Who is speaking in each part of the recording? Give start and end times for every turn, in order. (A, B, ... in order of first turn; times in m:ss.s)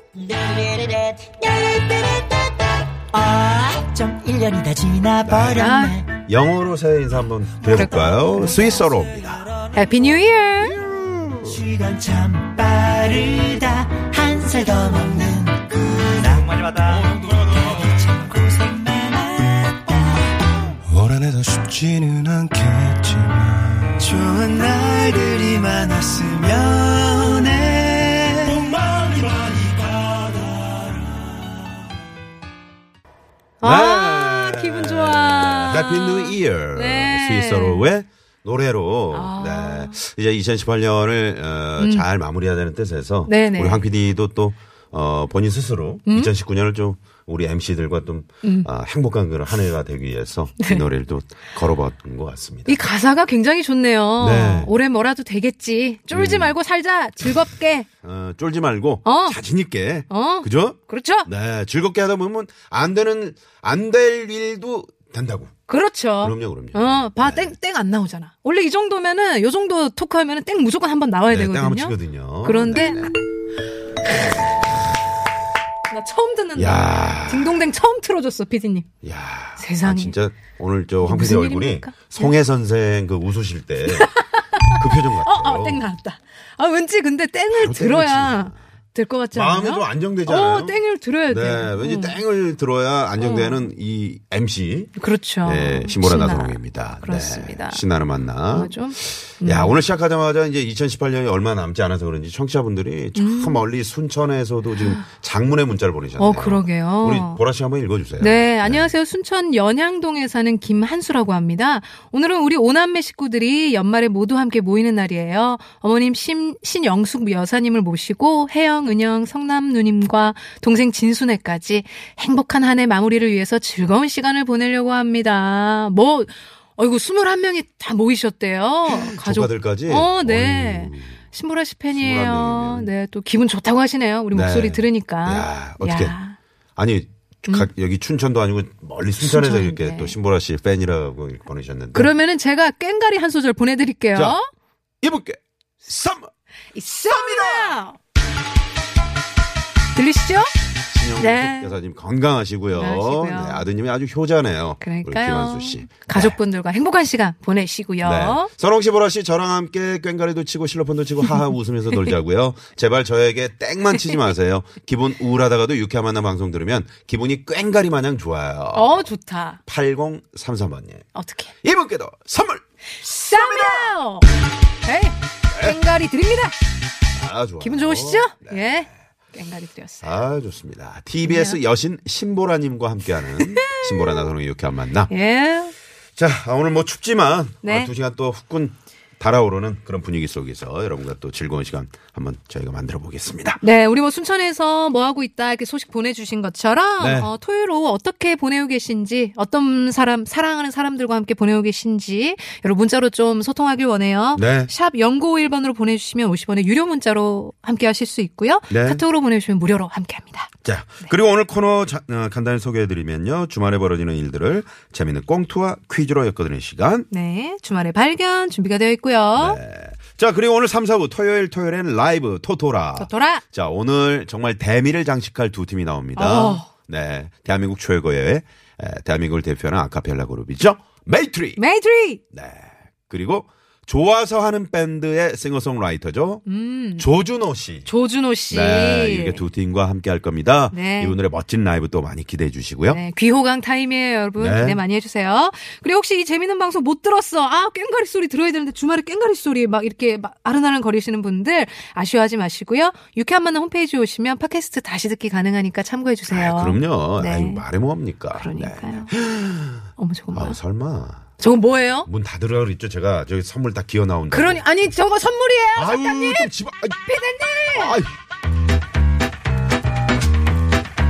0:00.1-0:02.6 A
0:03.1-0:06.2 A
0:05.2-0:05.7 B
0:05.6-0:06.0 C
0:06.3-0:09.5 B
0:07.7-0:08.2 C
0:09.7-0:10.8 C
0:10.6-0:11.6 B
0:11.4-0:20.3 A
0:20.9-0:24.0 D
0:24.0-0:31.3 A
0:33.6-0:37.9 C
0:33.6-0:52.8 B
0:39.1-0:40.0 C
0:41.8-0:42.0 C
0:43.3-0:43.9 C
0:46.1-0:46.3 C
0:48.4-0:48.7 C
0:52.7-0:57.9 C
0:54.2-0:54.7 B
0:56.1-0:56.6 B
0:58.0-1:05.5 B
0:59.0-0:59.4 C
1:00.1-1:01.3 C
1:05.7-1:13.1 C
1:06.2-1:07.5 B
1:11.3-1:13.1 B
1:15.9-1:18.9 C
1:16.6-1:17.6 B
1:19.0-1:24.1 B
1:19.6-1:20.2 C
1:21.0-1:22.3 C
1:23.9-1:32.2 C
1:24.7-1:25.8 B
1:27.5-1:28.6 B
1:29.3-1:34.9 B
1:33.2-1:33.7 C
1:35.0-1:37.8 C
1:35.4-1:48.9 B
1:38.5-1:39.8 C
1:43.2-1:43.6 C
1:46.2-1:47.4 C
1:48.2-2:16.4 C
2:08.9-2:11.2 B
2:11.9-2:12.9 B
2:14.3-2:16.2 B
2:16.8-2:22.1 B
2:19.2-2:20.1 C
2:21.9-2:24.5 C
2:25.0-2:26.3 B
2:26.7-2:28.0 C
2:27.1-2:27.8 B
2:30.0-2:30.5 C
2:30.9-2:36.4 B
2:31.2-2:31.7 C
2:32.8-2:33.6 C
2:34.8-2:38.5 C
2:38.0-2:49.0 B
2:48.7-2:49.6 C
2:49.7-2:51.1 B
2:51.2-2:51.5 C
2:51.6-2:52.6 B
2:53.0-2:54.3 C
2:53.3-2:54.0 B
2:54.8-2:56.6 C
2:55.5-2:55.8 B
2:57.1-2:58.8 B
2:57.6-3:00.0 C
3:00.0-3:05.1 B
3:01.2-3:01.6 C
3:03.4-3:04.3 C
3:05.1-3:05.7 C
3:06.2-3:13.6 B
3:07.6-3:07.9 C
3:13.6-3:30.5 C
3:17.0-3:17.3 B
3:24.4-3:24.7 B
3:28.7-3:29.0 B
3:30.6-3:37.1 B
3:37.1-3:39.6 C
3:39.4-3:51.6 B
3:43.0-3:43.4 C
3:46.2-3:46.7 C
3:51.6-3:52.2 C
3:52.3-3:56.4 B
3:56.5-3:57.1 C
3:57.0-3:57.9 B
3:57.9-3:59.4 C
3:58.5-4:03.0 B
4:00.7-4:01.2 C
4:02.9-4:17.6 C
4:04.4-4:04.8 B
4:16.3-4:21.3 B
4:18.3-4:19.1 C
4:20.0-4:20.6 C
4:21.4-4:22.1 C
4:22.1-4:24.6 B
4:24.3-4:26.5 C
4:25.8-4:27.0 B
4:27.0-4:28.0 C
4:27.7-4:28.1 B